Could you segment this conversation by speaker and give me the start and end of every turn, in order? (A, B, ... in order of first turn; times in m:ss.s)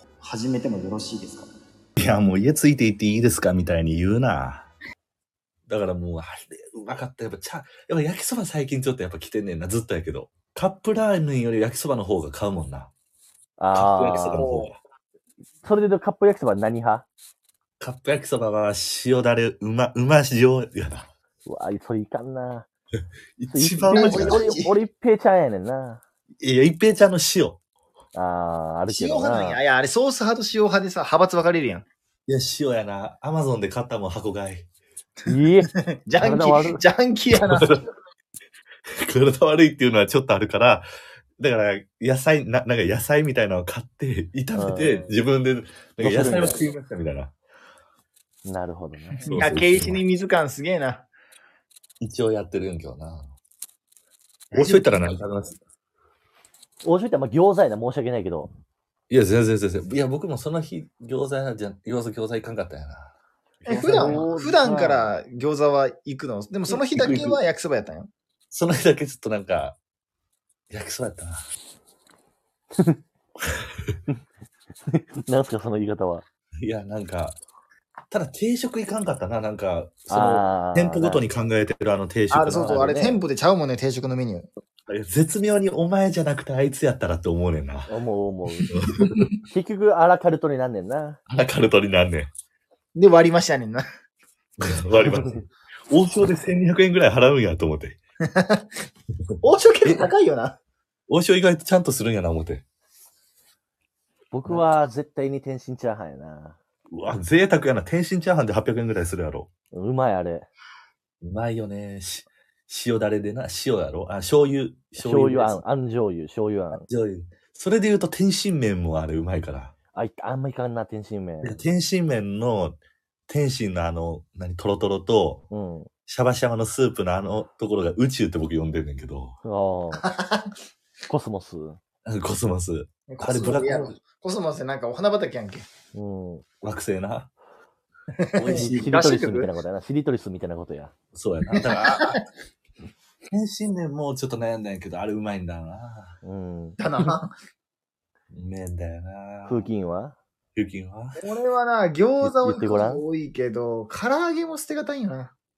0:00.2-0:01.5 A
0:02.0-0:04.7 B
0:05.7-0:12.9 B
0:13.6-0:14.5 C
0:13.7-0:14.8 B
0:14.3-0:14.7 A
0:15.6-0:17.0 C
0:17.8-0:21.1 B
0:21.4-0:22.7 C
0:23.4-0:24.6 B
0:23.5-0:26.0 C
0:23.9-0:24.7 A
0:26.4-0:27.6 B
0:28.1-0:29.6 C
0:28.9-0:31.8 A
0:32.3-0:34.6 B
0:35.3-0:37.7 A
0:35.3-0:36.8 C
0:37.3-0:37.8 B
0:39.0-0:40.8 B
0:41.4-0:47.3 B
0:44.5-0:45.2 C
0:46.0-0:46.6 C
0:48.4-0:49.3 C
0:49.2-0:51.1 A
0:49.3-0:50.0 B
0:52.0-0:53.3 B
0:54.5-0:55.6 B
0:54.5-0:55.1 A
0:56.8-0:58.5 C
0:59.1-1:03.1 B
1:03.6-1:08.1 A
1:03.6-1:04.3 B
1:03.7-1:05.1 C
1:06.7-1:07.4 B
1:08.5-1:09.8 B
1:10.7-1:11.4 B
1:14.9-1:16.2 C
1:16.6-1:17.4 B
1:18.1-1:22.7 B
1:20.1-1:21.2 C
1:22.3-1:24.5 A
1:22.5-1:23.2 C
1:24.9-1:27.9 B
1:27.9-1:28.7 C
1:28.7-1:29.3 B
1:29.5-1:31.2 C
1:31.3-1:32.3 B
1:32.9-1:33.8 A
1:34.6-1:35.4 B
1:35.1-1:35.4 C
1:35.9-1:38.0 B
1:38.3-1:38.6 A
1:39.4-1:40.6 A
1:41.1-1:42.6 B
1:44.3-1:46.6 C
1:46.9-1:49.5 B
1:49.7-1:50.5 C
1:51.2-1:55.6 B
1:55.0-1:56.9 C
1:56.7-1:59.7 B
1:59.9-2:01.6 C
2:01.4-2:05.4 B
2:05.5-2:05.9 C
2:06.1-2:09.4 B
2:09.4-2:10.0 C
2:10.0-2:10.5 A
2:11.1-2:11.8 C
2:12.0-2:14.0 B
2:13.1-2:15.6 A
2:15.9-2:16.4 C
2:16.6-2:17.3 B
2:18.2-2:19.5 A
2:18.4-2:19.0 B
2:18.5-2:20.9 C
2:21.1-2:22.2 B
2:21.6-2:22.2 A
2:23.3-2:26.2 B
2:26.2-2:27.1 C
2:26.8-2:27.3 A
2:28.3-2:29.7 B
2:29.4-2:30.2 C
2:30.5-2:31.2 B
2:31.2-2:35.3 A
2:32.2-2:33.0 C